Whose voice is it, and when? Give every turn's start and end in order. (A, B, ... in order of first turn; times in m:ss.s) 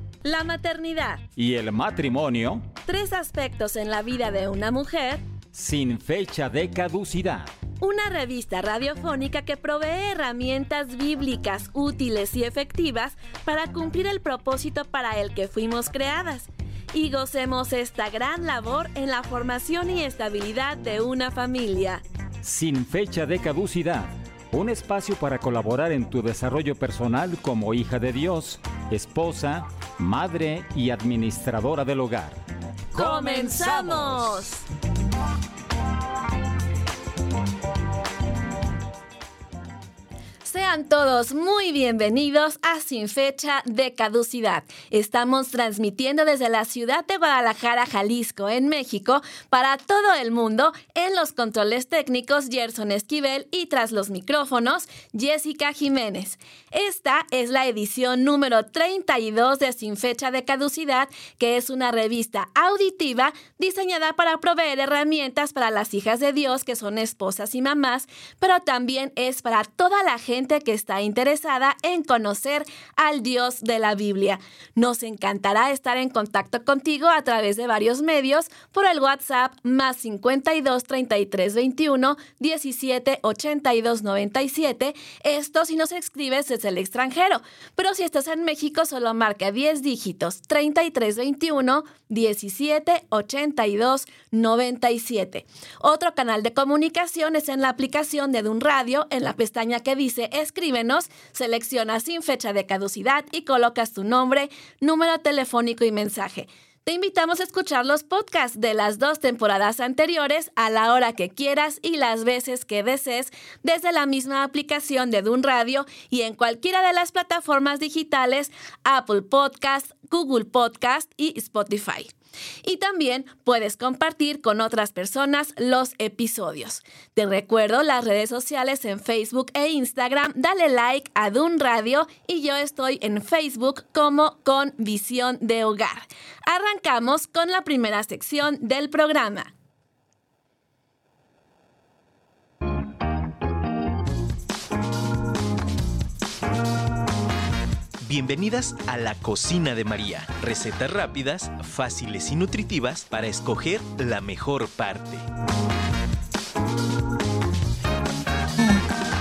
0:00.2-0:01.2 A
0:01.3-0:02.7 B
0:02.8-0:05.2 A
0:05.5-0:07.5 B
0:07.8-0:22.0 A
0:22.4-0:32.4 B
0:32.9-0:34.5 B
0:32.9-0:34.6 A
0:40.4-2:02.1 A
2:02.6-2:19.5 A
2:28.0-2:35.2 C